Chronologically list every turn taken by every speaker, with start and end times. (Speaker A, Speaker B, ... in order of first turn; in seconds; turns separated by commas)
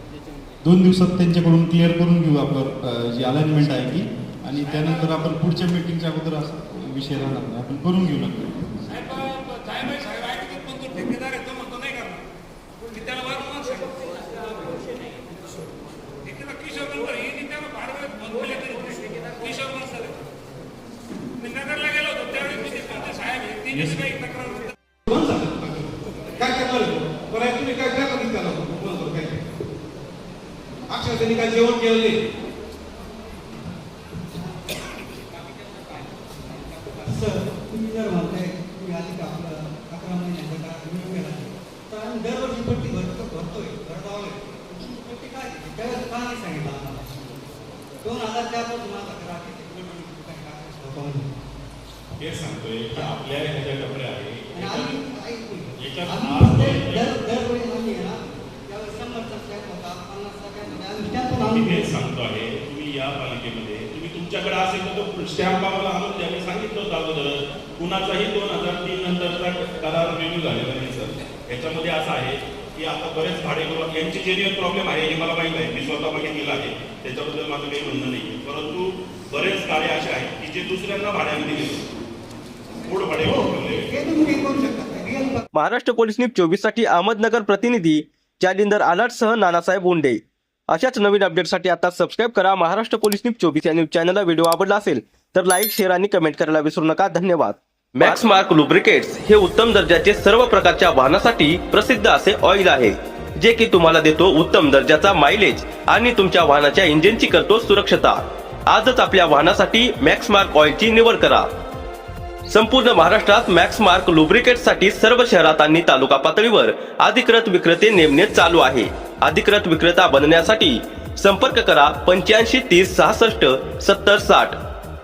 Speaker A: 0.6-8.8, Speaker B: 4.7-5.1, Speaker B: 8.9-12.2, Speaker B: 12.9-14.6, Speaker B: 16.2-20.2, Speaker B: 21.4-24.7, Speaker C: 23.7-24.0, Speaker C: 25.1-25.8, Speaker C: 26.4-29.4, Speaker C: 30.9-32.2, Speaker D: 34.3-34.7, Speaker D: 35.3-47.5, Speaker D: 48.0-51.3, Speaker E: 52.2-55.0, Speaker D: 54.6-62.0, Speaker E: 55.8-57.2, Speaker E: 61.3-81.8, Speaker E: 82.8-83.9, Speaker D: 83.2-85.4, Speaker F: 85.5-90.2, Speaker F: 90.7-111.5, Speaker F: 112.5-124.6